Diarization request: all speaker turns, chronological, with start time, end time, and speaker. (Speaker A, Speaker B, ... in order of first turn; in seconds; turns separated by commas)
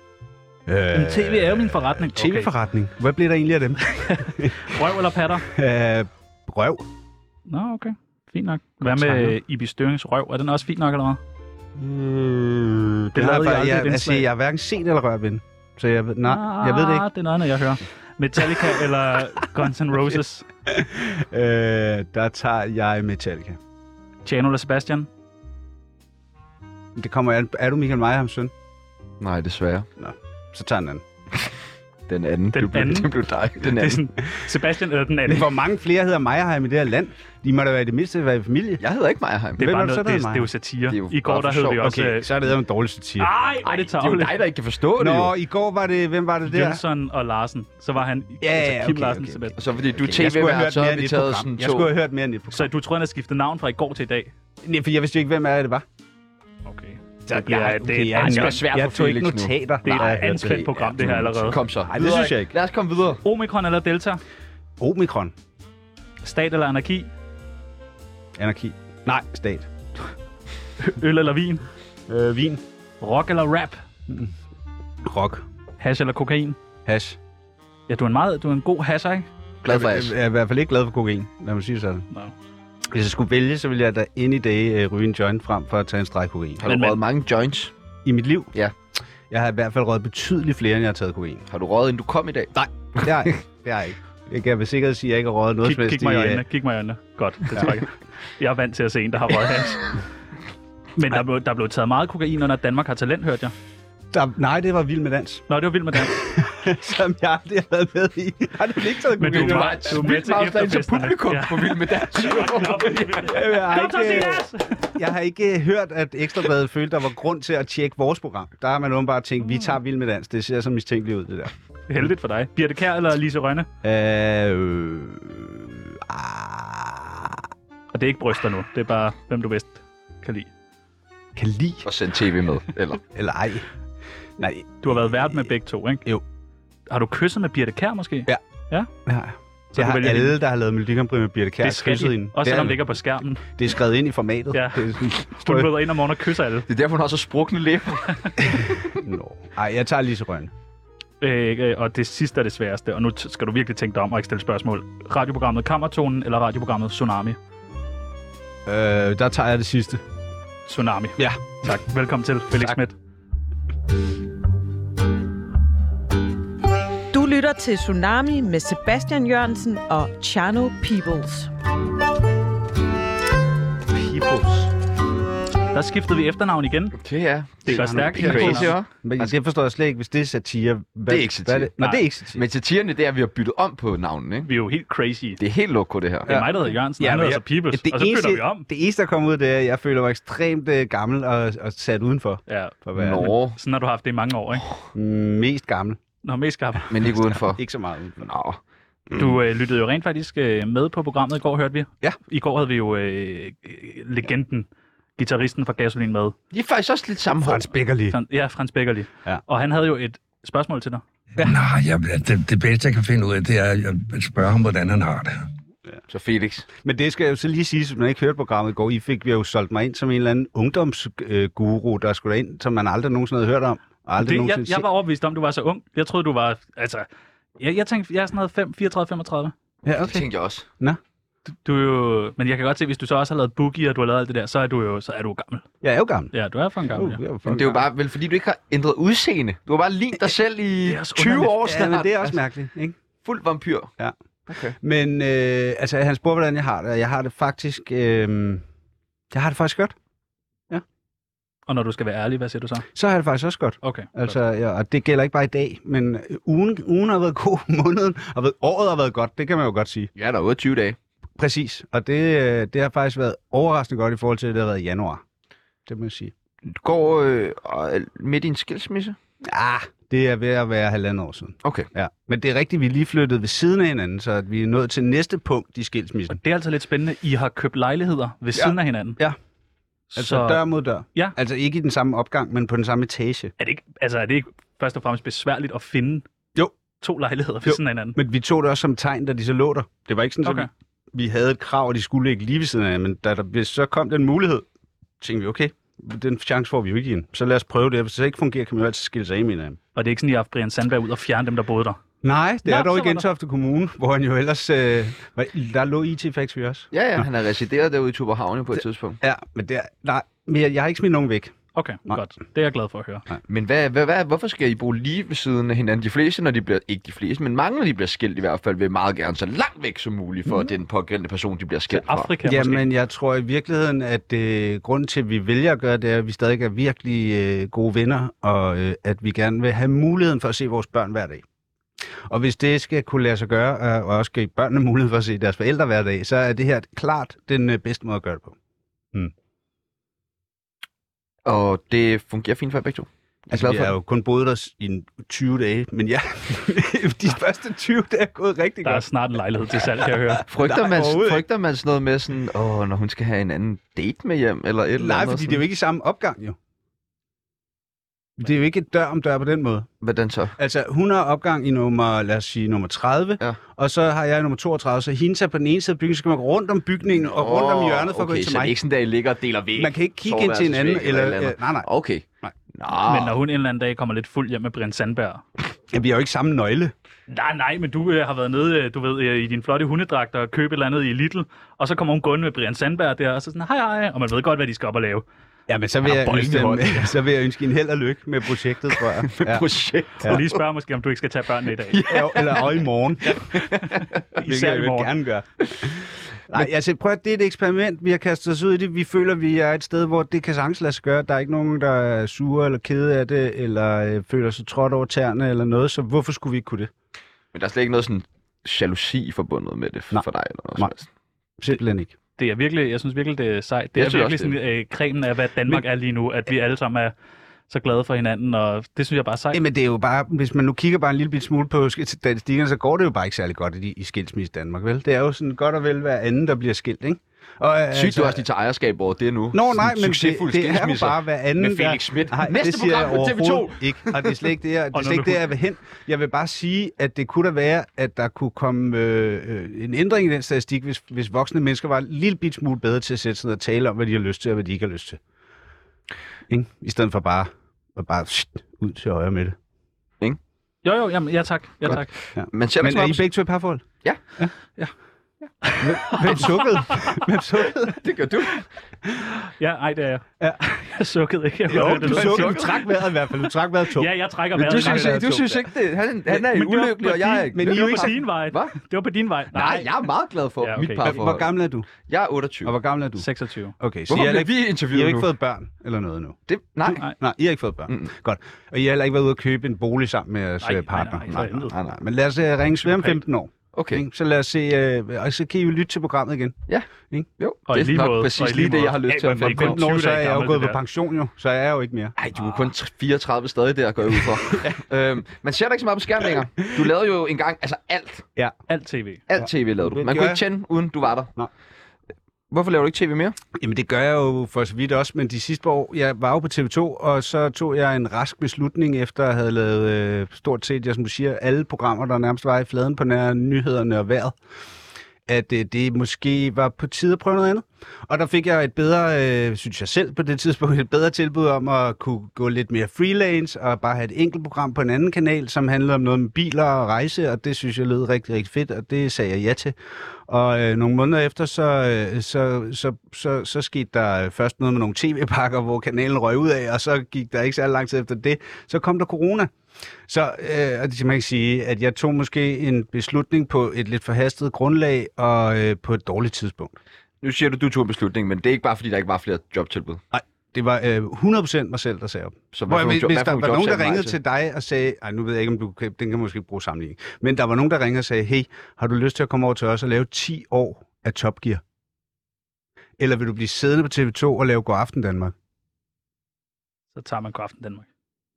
Speaker A: 0.7-4.7, Speaker B: 0.9-2.5, Speaker B: 3.9-5.5, Speaker A: 5.4-6.9, Speaker B: 7.5-11.2, Speaker A: 8.8-9.4, Speaker A: 11.8-17.1, Speaker B: 13.1-14.3, Speaker B: 16.2-20.5, Speaker A: 20.6-23.6, Speaker B: 24.2-25.1, Speaker A: 26.9-28.5, Speaker C: 29.2-29.9, Speaker A: 30.0-31.0, Speaker C: 32.1-34.0, Speaker B: 32.5-35.5, Speaker A: 35.3-38.8, Speaker C: 38.8-39.6, Speaker A: 39.6-40.5, Speaker B: 39.6-42.3, Speaker C: 40.9-41.9, Speaker A: 41.8-43.3, Speaker B: 43.2-44.4, Speaker C: 43.6-45.3, Speaker A: 45.0-46.8, Speaker B: 46.5-49.6, Speaker A: 48.4-49.4, Speaker C: 49.5-51.9, Speaker A: 49.9-52.7, Speaker B: 52.5-54.3, Speaker A: 54.6-55.8, Speaker B: 56.6-58.6, Speaker A: 57.3-60.7, Speaker C: 58.1-63.2, Speaker B: 59.8-61.6, Speaker A: 61.9-62.5, Speaker B: 63.2-64.2, Speaker A: 64.8-65.3, Speaker B: 66.2-67.1, Speaker A: 68.4-69.7, Speaker B: 70.8-71.6, Speaker A: 72.1-72.6, Speaker B: 73.0-73.8, Speaker A: 75.0-75.4, Speaker B: 75.8-76.6, Speaker A: 76.9-77.2, Speaker B: 77.9-79.3, Speaker C: 79.6-80.1, Speaker A: 79.7-82.0, Speaker A: 82.9-86.7, Speaker C: 86.6-87.7, Speaker B: 86.7-87.0, Speaker A: 88.1-88.5, Speaker A: 89.3-91.4, Speaker C: 91.5-93.3, Speaker A: 92.5-96.4, Speaker B: 95.6-99.9, Speaker B: 101.0-103.5, Speaker A: 104.1-110.1, Speaker B: 105.5-106.2, Speaker B: 109.2-114.9, Speaker C: 109.2-113.3, Speaker A: 113.3-121.5, Speaker B: 121.9-123.7, Speaker A: 123.8-127.5, Speaker B: 127.9-130.5, Speaker A: 131.3-131.8, Speaker C: 131.8-133.0, Speaker A: 133.1-133.7, Speaker A: 134.4-135.2, Speaker B: 134.8-136.1, Speaker B: 136.9-138.9, Speaker A: 139.1-142.8, Speaker B: 139.7-140.4, Speaker B: 141.6-143.4, Speaker A: 143.6-145.7, Speaker B: 144.5-146.7, Speaker C: 146.7-148.6, Speaker A: 148.9-150.5, Speaker B: 151.2-157.4, Speaker A: 158.7-160.0, Speaker B: 160.7-162.9, Speaker D: 167.1-171.5, Speaker A: 173.9-174.7, Speaker B: 175.7-176.9, Speaker C: 176.9-179.3, Speaker B: 177.7-178.7, Speaker A: 177.7-182.4, Speaker C: 181.1-181.7, Speaker C: 182.3-184.5, Speaker B: 184.4-185.4, Speaker C: 185.4-186.3, Speaker B: 186.3-188.7, Speaker A: 186.3-193.3, Speaker B: 192.5-194.7, Speaker C: 192.9-193.6, Speaker A: 194.9-196.0, Speaker B: 196.2-196.9, Speaker C: 196.9-197.6, Speaker A: 197.3-198.3, Speaker C: 198.2-198.6, Speaker B: 199.1-206.3, Speaker C: 206.5-207.7, Speaker A: 207.4-208.2, Speaker B: 208.1-211.0, Speaker E: 211.4-215.5, Speaker C: 216.1-216.7, Speaker A: 216.8-224.8, Speaker B: 224.2-227.1, Speaker B: 227.6-229.5, Speaker A: 229.8-230.3, Speaker C: 229.9-230.7, Speaker B: 231.7-235.7, Speaker A: 235.8-236.3, Speaker B: 236.3-237.2, Speaker A: 236.9-237.8, Speaker C: 237.4-242.4, Speaker B: 240.8-241.5, Speaker A: 241.6-242.9, Speaker C: 243.2-243.9, Speaker C: 244.5-244.8, Speaker A: 244.8-248.6, Speaker A: 249.3-249.9, Speaker B: 251.7-252.8, Speaker A: 252.9-260.1, Speaker B: 253.8-254.3, Speaker C: 260.2-261.0, Speaker A: 261.4-265.2, Speaker A: 265.9-266.3, Speaker C: 266.7-269.2, Speaker A: 269.4-276.4, Speaker B: 276.3-279.2, Speaker A: 278.6-279.4, Speaker B: 280.1-281.3, Speaker A: 280.2-283.5, Speaker B: 283.6-286.2, Speaker B: 287.0-288.2, Speaker A: 287.6-294.7, Speaker B: 290.4-290.7, Speaker A: 295.2-299.8, Speaker B: 299.9-302.0, Speaker A: 302.2-307.2, Speaker B: 302.6-303.2, Speaker C: 306.9-309.2, Speaker A: 309.2-311.5, Speaker B: 311.7-313.3, Speaker C: 313.5-322.3, Speaker B: 321.9-322.9, Speaker A: 322.4-331.4, Speaker A: 332.3-338.6, Speaker C: 341.4-343.9, Speaker A: 343.5-349.1, Speaker B: 348.8-350.4, Speaker A: 350.3-351.4, Speaker C: 350.5-355.6, Speaker A: 355.0-356.6, Speaker A: 358.4-359.9, Speaker C: 360.0-360.6, Speaker A: 360.6-368.7, Speaker C: 367.2-373.4, Speaker A: 369.8-371.9, Speaker B: 373.0-375.4, Speaker A: 375.9-376.9, Speaker B: 377.3-385.2, Speaker A: 385.7-389.7, Speaker C: 386.0-387.1, Speaker C: 389.0-390.6, Speaker B: 390.2-392.0, Speaker C: 391.9-394.2, Speaker A: 392.1-393.7, Speaker B: 394.4-395.1, Speaker A: 394.4-406.9, Speaker C: 407.5-411.1, Speaker A: 411.6-412.1, Speaker B: 412.4-417.1, Speaker C: 413.9-414.6, Speaker B: 417.7-419.6, Speaker A: 419.5-428.4, Speaker C: 427.9-434.4, Speaker A: 429.5-445.2, Speaker B: 434.9-435.5, Speaker A: 446.5-449.6, Speaker B: 450.8-452.1, Speaker A: 452.4-453.9, Speaker C: 452.5-453.3, Speaker B: 455.6-457.3, Speaker A: 455.8-458.0, Speaker C: 457.8-458.6, Speaker B: 459.3-462.7, Speaker A: 461.7-465.7, Speaker C: 461.7-462.9, Speaker B: 463.9-465.4, Speaker C: 464.6-468.7, Speaker A: 466.3-468.2, Speaker B: 467.1-469.9, Speaker C: 469.5-471.5, Speaker B: 470.6-471.2, Speaker A: 471.0-471.9, Speaker C: 472.1-472.7, Speaker A: 472.6-473.3, Speaker B: 473.2-473.7, Speaker A: 473.8-487.3, Speaker C: 474.1-475.3, Speaker C: 476.5-477.1, Speaker B: 480.6-481.7, Speaker C: 481.7-482.0, Speaker B: 482.8-483.2, Speaker C: 483.7-484.1, Speaker C: 487.4-489.8, Speaker B: 487.7-490.8, Speaker A: 489.1-492.1, Speaker C: 492.2-498.3, Speaker A: 494.5-494.8, Speaker B: 498.7-499.2, Speaker C: 499.3-501.3, Speaker A: 499.4-500.4, Speaker C: 502.5-503.4, Speaker A: 503.6-514.4, Speaker A: 515.3-529.8, Speaker A: 530.3-539.5, Speaker A: 540.1-546.8, Speaker C: 547.2-550.0, Speaker A: 550.1-561.6, Speaker C: 552.5-554.1, Speaker A: 563.0-565.3, Speaker B: 566.9-567.9